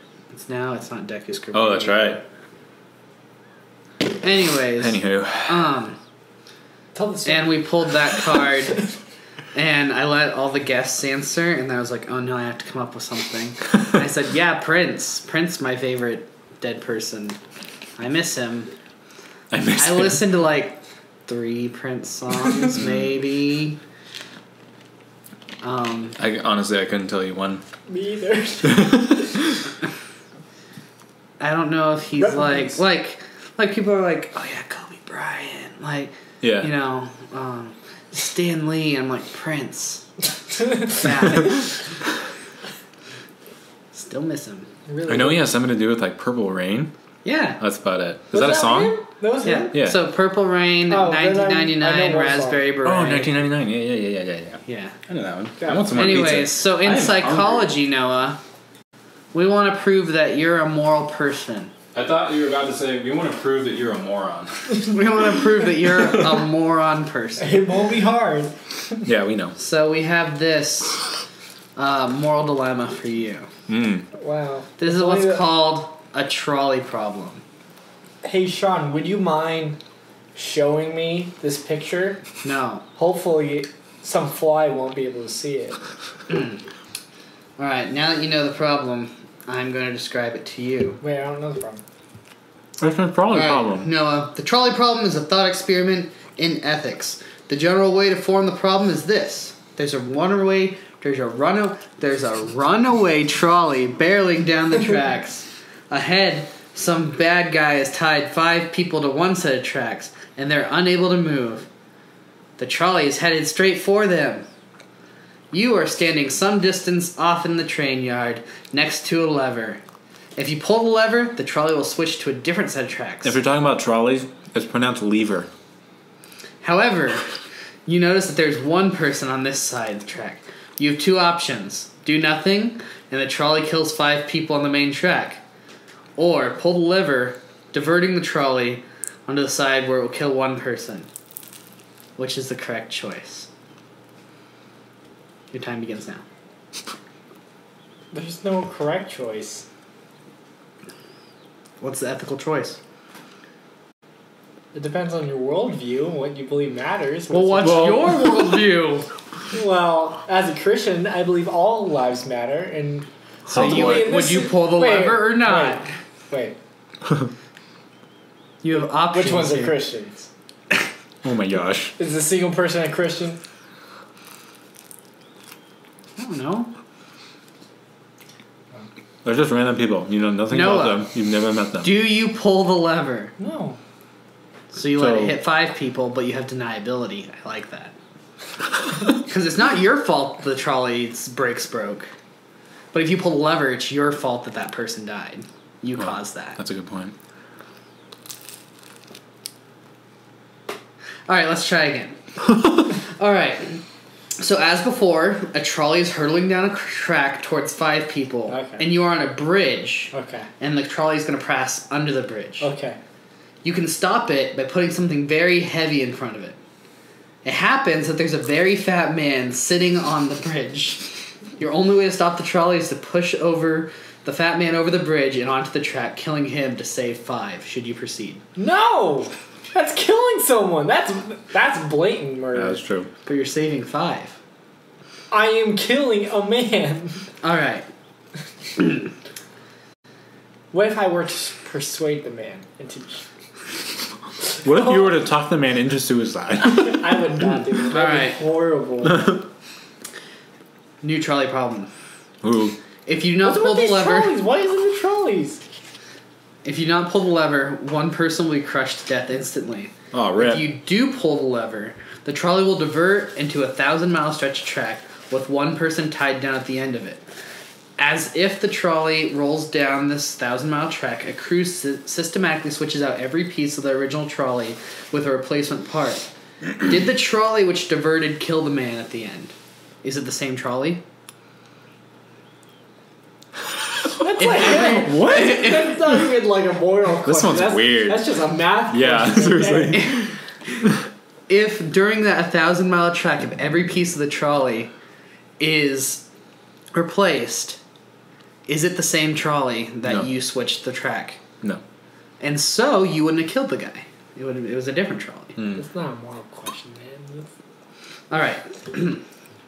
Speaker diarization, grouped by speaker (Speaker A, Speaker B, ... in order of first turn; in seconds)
Speaker A: 0.3-2.2, 4.0-6.0, 7.2-8.8, 9.5-17.4, 18.0-18.7, 19.8-23.8, 25.6-26.2, 31.4-40.1, 40.9-41.7, 43.9-44.7, 47.2-47.6, 49.4-53.3, 54.6-55.0, 55.9-58.4, 59.3-61.7, 64.8-67.6, 69.5-71.0, 71.8-73.5, 74.8-77.4, 82.4-82.8, 86.3-86.6, 87.6-91.0, 93.3-111.7, 112.6-114.5, 115.5-119.8, 120.3-123.4, 126.6-127.2, 127.8-135.4, 136.2-141.1, 142.2-143.5, 145.5-146.2, 151.8-152.8, 157.3-159.1, 163.5-165.8, 168.6-169.8, 176.2-176.7, 180.5-181.1, 181.8-183.3, 184.7-187.9, 189.1-192.1, 192.9-196.6, 201.3-202.2, 203.1-203.8, 204.4-212.7, 213.6-216.6, 217.4-228.4, 233.2-234.4, 237.4-237.9, 247.9-248.4, 251.0-251.9, 253.1-254.4, 256.6-267.2, 268.0-281.0, 284.4-286.0, 291.5-294.9, 295.6-296.2, 296.9-297.8, 298.7-301.4, 302.4-305.6, 308.3-309.2
Speaker B: 1.5-2.2, 4.8-5.7, 19.5-20.2, 22.7-23.0, 26.2-27.6, 28.6-29.6, 36.4-36.7, 45.0-46.9, 47.6-49.0, 52.8-57.7, 61.9-65.0, 69.0-69.5, 73.7-74.1, 92.8-93.9, 123.2-125.5, 157.6-158.1, 163.5-164.2, 171.2-171.9, 179.2-181.9, 184.9-185.3, 196.0-197.1, 232.5-233.1, 244.6-247.0, 252.4-252.8, 260.1-260.6, 284.9-285.7, 287.2-288.3, 288.9-290.3, 305.6-305.8
Speaker C: 6.9-7.9, 27.9-29.3, 32.2-32.8, 40.7-41.3, 44.9-45.5, 48.3-49.7, 50.9-52.7, 55.6-56.4, 67.4-69.0, 74.1-75.5, 78.2-79.8, 80.3-82.2, 83.0-85.8, 91.0-91.8, 148.1-149.6, 154.7-157.9, 159.5-166.6, 168.7-170.3, 172.0-173.4, 183.4-183.8, 208.5-208.8, 210.1-210.5, 212.6-213.0, 228.6-232.8, 235.3-237.2, 240.7-243.2, 244.7-245.2, 246.7-249.4, 253.4-255.6, 284.2-290.2, 305.8-307.5